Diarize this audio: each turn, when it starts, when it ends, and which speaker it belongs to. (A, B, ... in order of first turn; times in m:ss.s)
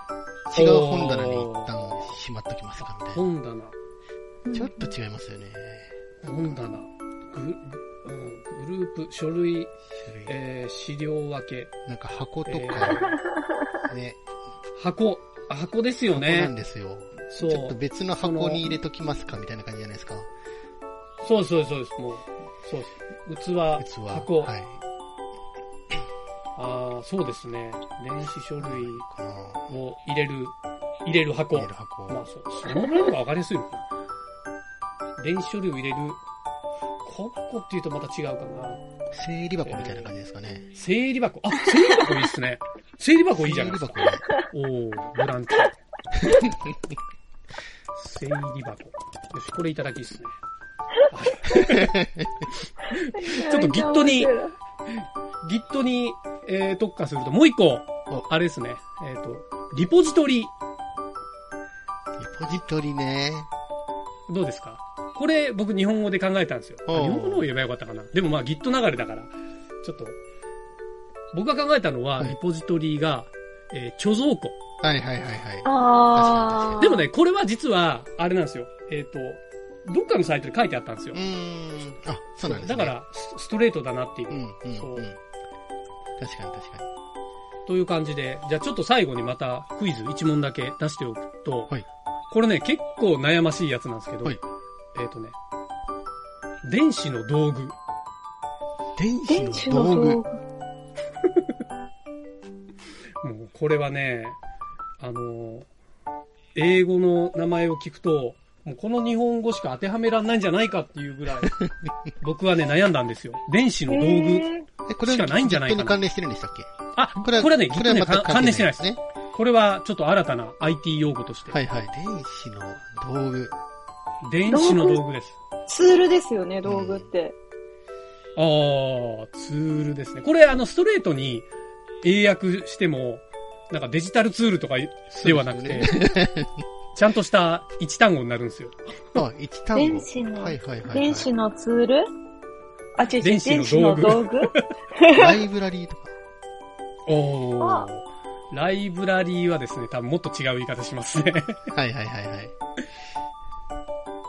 0:00.5-0:03.2 A
0:00.5-0:02.1 B
0:02.8-0:03.7 B
0:04.5-0:04.9 C
0:04.5-0:06.7 A
0:06.2-0:09.7 B
0:10.0-0:10.4 A
0:10.2-0:11.7 B
0:11.8-0:13.2 A
0:12.4-0:13.2 B
0:13.8-0:14.2 A
0:14.8-0:16.5 B
0:16.1-0:20.3 A
0:17.3-0:18.7 B
0:21.2-0:24.5 B
0:23.8-0:24.8 A
0:26.6-0:29.0 B
0:28.6-0:29.7 A
0:29.7-0:33.9 B
0:31.5-0:32.2 A
0:35.2-0:36.2 B
0:37.0-0:38.8 B
0:39.1-0:40.7 A
0:39.6-0:40.1 B
0:40.7-0:45.8 B
0:43.4-0:44.2 A
0:47.9-0:50.4 B
0:51.1-0:52.0 B
0:51.5-0:52.4 A
0:53.0-0:54.5 C
0:53.3-0:54.3 B
0:55.4-1:00.5 B
1:02.2-1:03.5 A
1:04.3-1:10.2 B
1:06.9-1:07.5 A
1:11.3-1:14.6 B
1:14.8-1:16.9 A
1:15.6-1:17.0 C
1:16.8-1:21.2 B
1:21.1-1:23.0 A
1:22.4-1:25.1 B
1:24.3-1:25.2 A
1:26.2-1:26.8 A
1:27.6-1:31.8 B
1:32.3-1:34.4 B
1:34.9-1:35.3 B
1:36.6-1:37.7 B
1:39.0-1:40.2 A
1:39.3-1:40.4 C
1:43.2-1:44.4 B
1:45.0-1:45.7 B
1:46.5-1:51.6 B
1:52.2-1:54.4 B
1:53.9-1:54.6 C
1:54.9-1:59.0 A
1:55.0-1:56.0 B
1:56.9-2:01.6 B
2:01.5-2:03.6 A
2:04.2-2:05.4 B
2:04.5-2:05.0 C
2:05.7-2:07.3 C
2:06.6-2:07.1 A
2:08.3-2:11.5 B
2:12.0-2:16.1 B
2:15.2-2:16.6 A
2:16.9-2:19.1 B
2:19.1-2:21.3 A
2:19.7-2:22.0 C
2:23.0-2:25.4 C
2:23.2-2:24.7 B
2:25.1-2:26.1 A
2:27.0-2:31.6 B
2:27.6-2:27.9 C
2:31.7-2:32.5 A